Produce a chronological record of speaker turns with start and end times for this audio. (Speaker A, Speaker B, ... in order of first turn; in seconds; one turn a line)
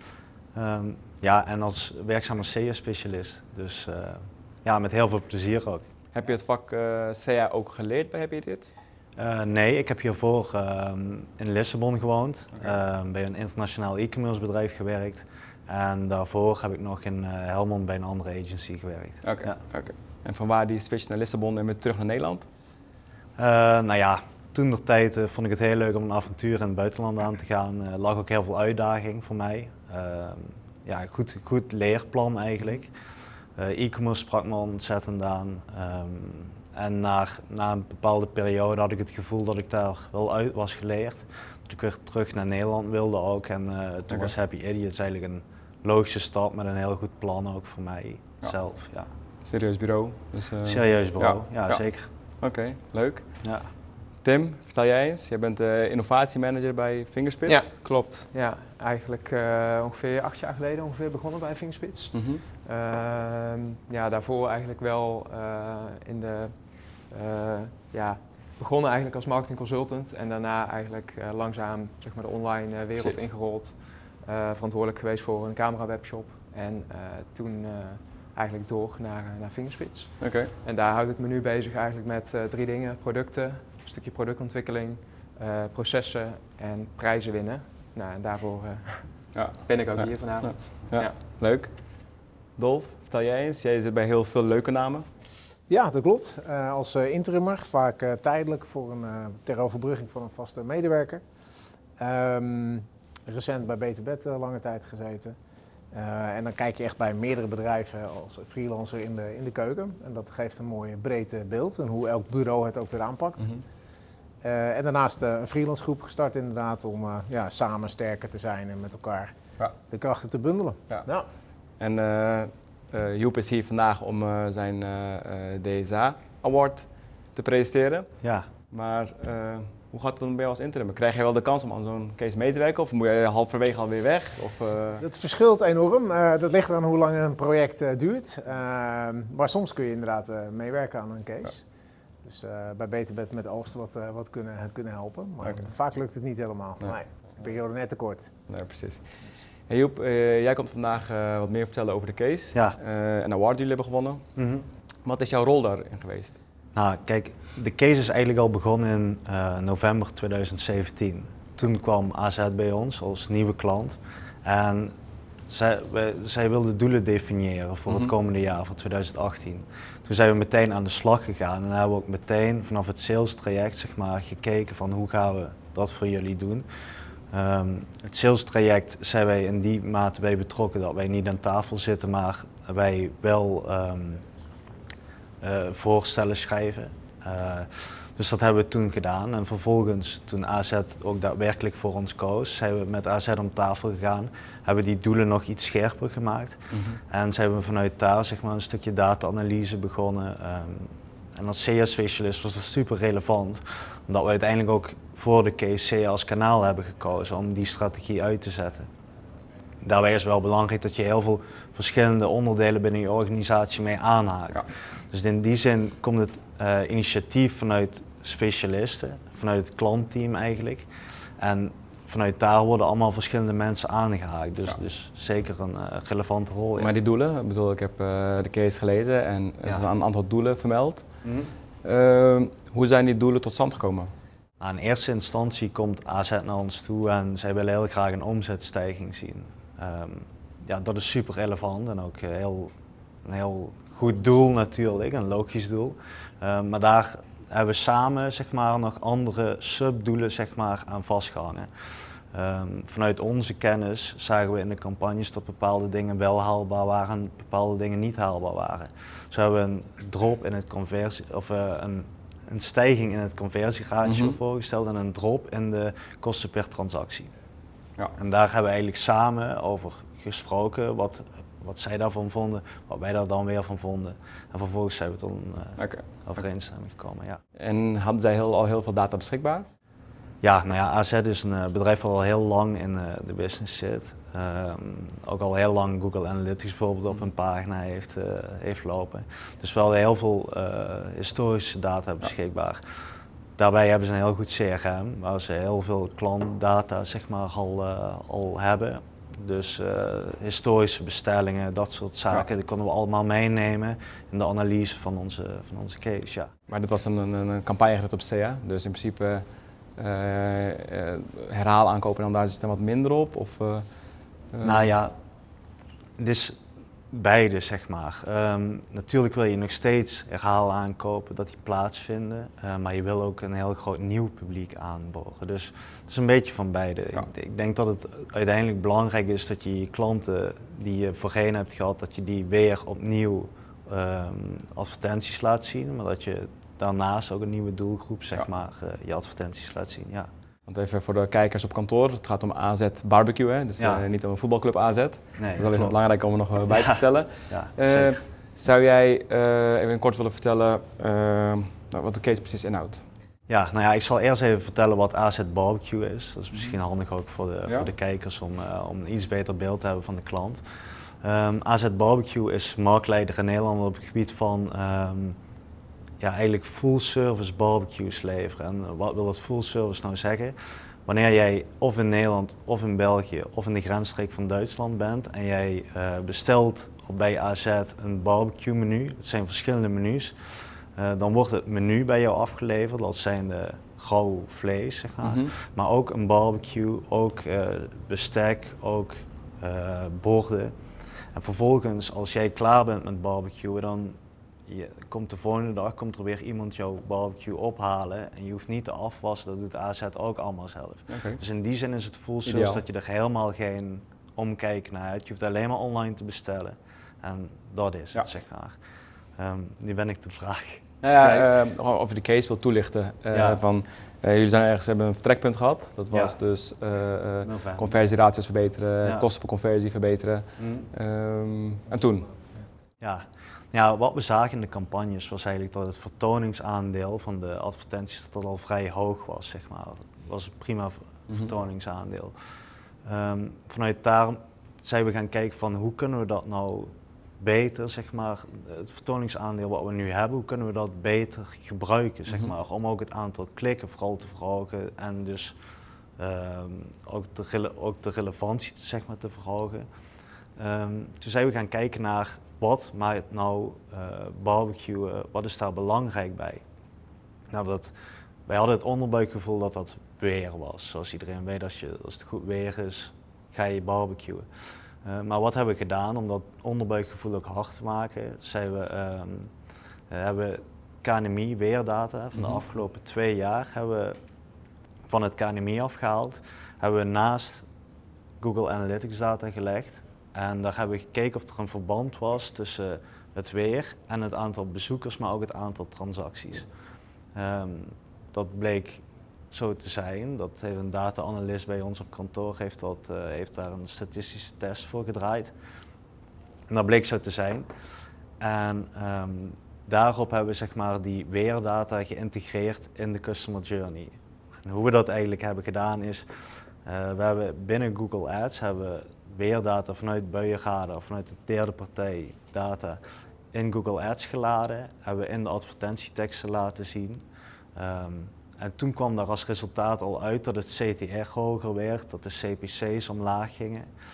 Speaker A: 0.5-5.8
Speaker B: 6.1-8.7
Speaker A: 9.2-19.6
Speaker B: 19.2-22.5
Speaker A: 23.4-32.9
Speaker A: 33.6-49.1
Speaker B: 49.4-53.6
Speaker A: 50.6-52.1
Speaker A: 53.4-53.7
Speaker B: 54.1-57.7
Speaker C: 57.5-91.2
Speaker B: 62.1-62.4
Speaker B: 73.0-73.2
Speaker B: 80.2-80.5
Speaker B: 89.3-95.0
Speaker D: 95.7-101.2
Speaker D: 102.0-105.3
Speaker D: 105.9-113.5
Speaker B: 113.4-113.6
Speaker D: 114.4-119.3
Speaker D: 119.9-121.2
Speaker B: 121.7-128.1
Speaker A: 128.2-128.5
Speaker B: 128.7-135.0
Speaker D: 135.0-141.7
Speaker D: 142.2-148.3
Speaker B: 145.4-145.7
Speaker B: 148.5-149.1
Speaker B: 149.7-154.2
Speaker A: 154.3-154.7
Speaker B: 155.0-156.4
Speaker A: 156.7-164.9
Speaker A: 165.5-176.7
Speaker A: 177.3-184.2
Speaker A: 185.4-208.9
Speaker B: 196.7-197.0
Speaker A: 209.8-220.9
Speaker A: 221.4-226.9
Speaker B: 226.8-234.1
Speaker A: 231.2-231.5
Speaker A: 234.6-242.7
Speaker A: 243.2-251.7
Speaker A: 252.3-267.3
Speaker B: 264.0-264.4
Speaker A: 268.1-277.4
Speaker B: 275.8-276.0
Speaker B: 277.6-279.7
Speaker A: 280.4-292.8
Speaker A: 293.6-306.5
Speaker B: 306.7-314.9
Speaker A: 314.6-315.1
Speaker A: 316.2-316.6
Speaker A: 317.1-340.3
Speaker B: 340.7-353.0
Speaker A: 343.8-344.0
Speaker A: 345.4-346.0
Speaker A: 346.7-348.2
Speaker A: 353.5-365.4
Speaker A: 366.2-390.7
Speaker B: 385.2-385.5
Speaker A: 391.3-408.8
Speaker B: 401.1-401.4
Speaker B: 402.4-402.8
Speaker A: 409.4-411.5
Speaker B: 411.0-422.3
Speaker A: 413.3-413.6
Speaker A: 416.1-416.4
Speaker A: 417.4-417.9
Speaker A: 420.6-420.9
Speaker A: 423.0-432.3
Speaker A: 433.0-445.6
Speaker A: 446.2-449.9
Speaker A: 450.6-456.6
Speaker A: 457.5-457.9
Speaker A: 458.5-464.4
Speaker A: 465.0-469.5
Speaker A: 470.1-474.2
Speaker B: 472.3-472.6
Speaker A: 475.1-477.6
Speaker A: 478.4-486.7
Speaker A: 487.4-495.5
Speaker A: 496.7-497.7
Speaker A: 498.4-506.3
Speaker A: 506.9-513.0
Speaker A: 513.5-517.2
Speaker A: 517.8-523.9